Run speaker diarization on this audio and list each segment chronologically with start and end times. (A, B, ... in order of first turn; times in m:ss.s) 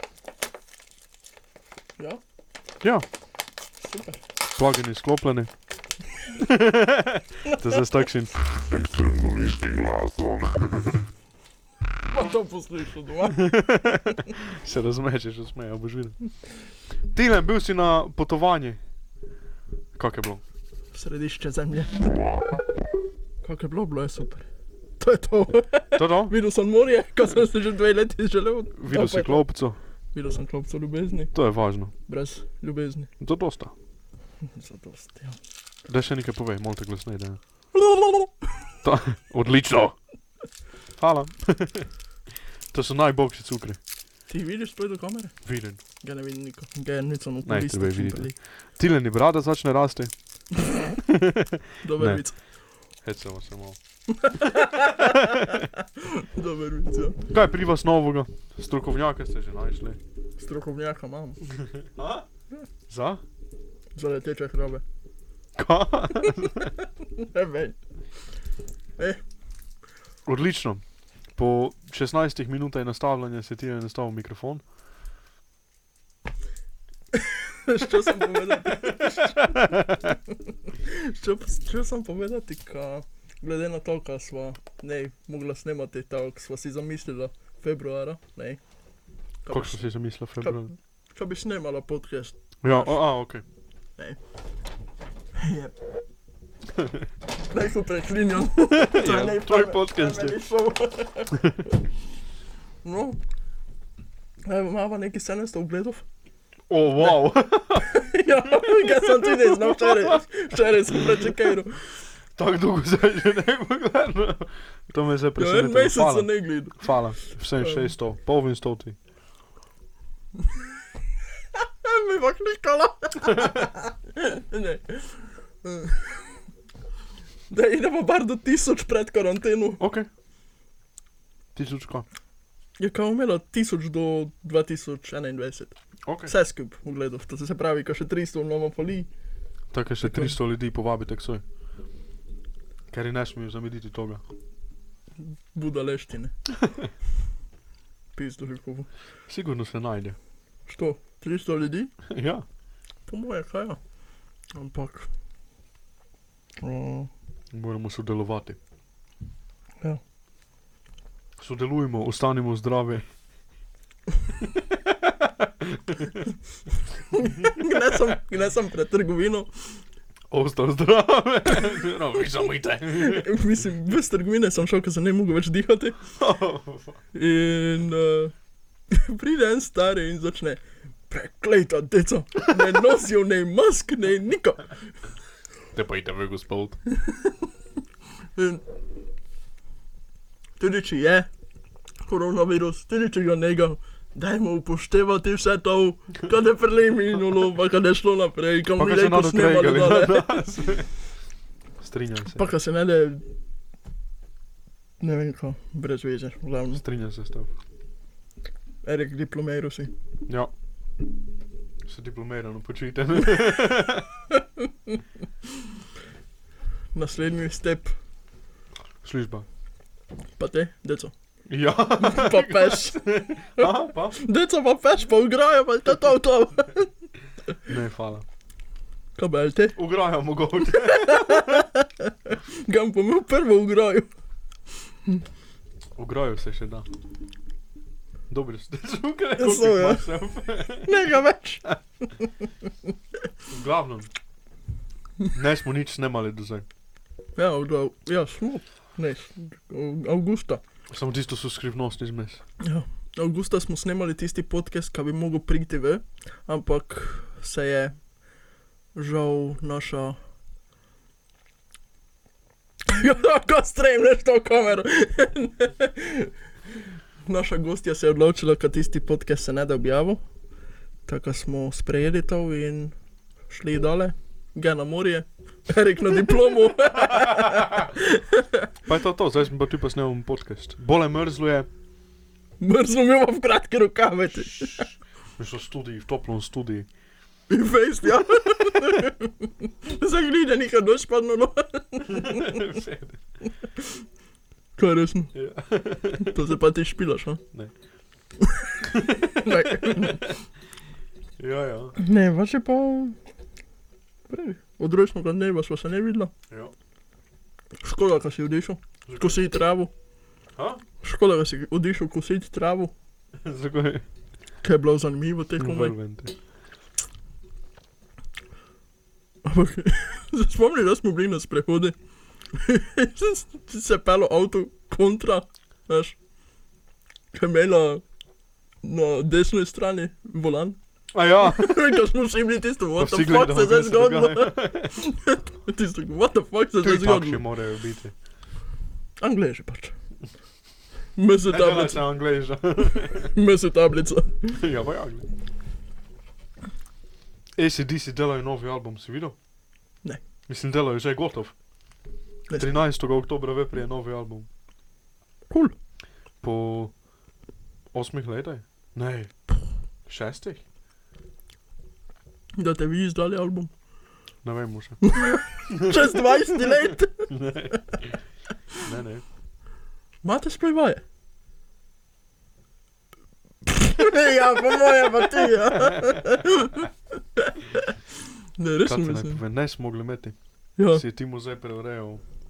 0:03.8-0:04.2 A
0:04.5-0:05.5 B
0:06.3-0:08.3 B
0:08.5-0:11.0 C
0:12.1-0:13.5 A
0:13.3-0:16.2 B
0:17.1-0:18.8 B
0:20.0-0:20.4 B
0:20.9-0:22.0 A
0:23.4-0:24.4 A
0:25.0-0:29.4 A
0:25.9-0:26.3 B
0:28.8-0:29.8 B
0:30.1-0:31.3 A
0:31.3-0:31.9 B
0:32.1-0:33.1 A
0:33.2-0:33.7 B
0:34.4-0:35.4 A
0:35.9-0:37.4 B
0:37.7-0:38.3 A
0:38.8-0:40.0 B
0:41.0-0:41.9 B
0:42.7-0:43.8 B
0:44.3-0:45.4 A
0:45.4-0:45.8 B
0:46.0-0:48.4 A
0:47.4-0:50.1 B
0:51.0-0:52.2 B
0:51.8-0:52.4 A
0:53.0-0:53.8 B
0:54.1-0:57.2 A
0:54.4-0:55.6 B
0:57.3-1:00.0 B
1:00.4-1:01.4 A
1:01.7-1:02.2 B
1:02.9-1:03.2 B
1:03.9-1:04.8 A
1:05.6-1:06.7 B
1:06.2-1:07.8 A
1:10.2-1:10.8 B
1:11.3-1:14.6 B
1:17.1-1:28.6 A
1:18.5-1:20.1 B
1:29.4-1:29.8 A
1:29.5-1:30.7 B
1:31.1-1:33.0 A
1:32.6-1:33.4 B
1:35.4-1:35.8 A
1:37.5-1:41.4 A
1:38.7-1:40.4 B
1:42.8-1:43.2 A
1:44.4-1:46.0 A
1:46.7-1:48.0 B
1:47.8-1:51.8 A
1:48.5-1:50.2 B
1:50.9-1:51.3 B
1:52.4-1:59.0 B
1:55.4-1:56.8 A
1:57.6-1:57.9 A
2:01.5-2:06.4 A
2:07.5-2:09.8 A
2:09.8-2:10.1 B
2:11.5-2:12.0 B
2:12.8-2:19.1 A
2:16.0-2:16.3 B
2:19.7-2:21.4 B
2:22.9-2:24.2 B
2:25.2-2:26.3 A
2:28.2-2:28.9 A
2:29.3-2:30.2 B
2:30.7-2:31.9 A
2:32.1-2:32.4 B
2:33.1-2:33.8 A
2:34.5-2:35.1 A
2:36.6-2:37.1 A
2:37.5-2:38.6 B
2:41.4-2:43.0 B
2:44.4-2:46.2 B
2:47.1-2:49.5 A
2:50.3-2:53.3 B
2:52.9-2:56.0 A
2:56.2-2:57.0 B
2:57.1-2:58.3 A
2:58.9-3:04.8 A
3:05.7-3:06.8 B
3:07.0-3:07.3 A
3:08.4-3:08.6 A
3:10.6-3:11.3 A
3:12.0-3:20.3 A
3:18.8-3:20.9 B
3:21.8-3:22.4 B
3:22.3-3:23.2 A
3:25.0-3:26.8 A
3:26.7-3:27.5 B
3:28.8-3:29.9 A
3:31.8-3:34.1 B
3:34.3-3:35.0 A
3:36.9-3:37.9 A
3:39.0-3:39.4 B
3:40.4-3:41.1 A
3:41.5-3:44.2 B
3:42.0-3:46.9 A
3:47.6-3:48.2 B
3:49.2-3:49.8 A
3:49.8-3:51.7 B
3:50.6-3:54.1 A
3:56.0-3:56.8 B
3:58.3-4:01.0 B
3:59.4-4:00.1 A
4:00.8-4:01.6 A
4:03.5-4:04.1 B
4:05.3-4:06.6 B
4:07.4-4:10.6 A
4:10.9-4:12.4 B
4:12.6-4:18.0 A
4:18.9-4:20.2 A
4:22.9-4:26.3 A
4:27.2-4:30.2 A
4:31.0-4:32.9 A
4:33.5-4:38.7 A
4:38.8-4:41.7 B
4:42.6-4:44.9 A
4:44.5-4:46.9 B
4:47.5-4:52.6 A
4:52.0-4:53.2 B
4:54.8-4:55.3 A
4:55.3-4:56.4 B
4:56.2-4:57.4 A
4:58.8-5:00.3 B
4:59.4-5:00.3 A
5:01.4-5:02.0 B
5:02.0-5:03.2 A
5:04.3-5:06.3 A
5:07.8-5:09.9 A
5:09.0-5:09.4 B
5:10.6-5:10.8 B
5:11.0-5:12.9 A
5:13.4-5:14.0 B
5:14.6-5:15.9 A
5:15.6-5:16.3 B
5:19.4-5:21.9 A
5:22.5-5:26.2 A
5:27.3-5:28.0 A
5:28.8-5:30.8 A
5:31.1-5:32.0 B
5:31.4-5:37.4 A
5:33.0-5:35.0 B
5:36.8-5:38.1 B
5:39.2-5:39.9 A
5:41.2-5:42.0 A
5:41.5-5:43.3 B
5:43.2-5:44.6 A
5:44.6-5:45.3 B
5:47.6-5:49.4 B
5:50.5-5:51.5 B
5:52.5-5:54.5 B
5:56.4-5:56.9 B
5:57.9-5:59.4 B
6:00.0-6:00.6 B
6:02.6-6:03.7 A
6:04.4-6:05.0 B
6:05.0-6:07.3 A
6:05.7-6:08.2 B
6:08.8-6:09.2 B
6:10.2-6:11.0 A
6:13.6-6:17.9 A
6:15.7-6:16.4 B
6:18.6-6:19.4 A
6:18.8-6:20.4 B
6:20.8-6:21.0 A
6:20.9-6:22.2 B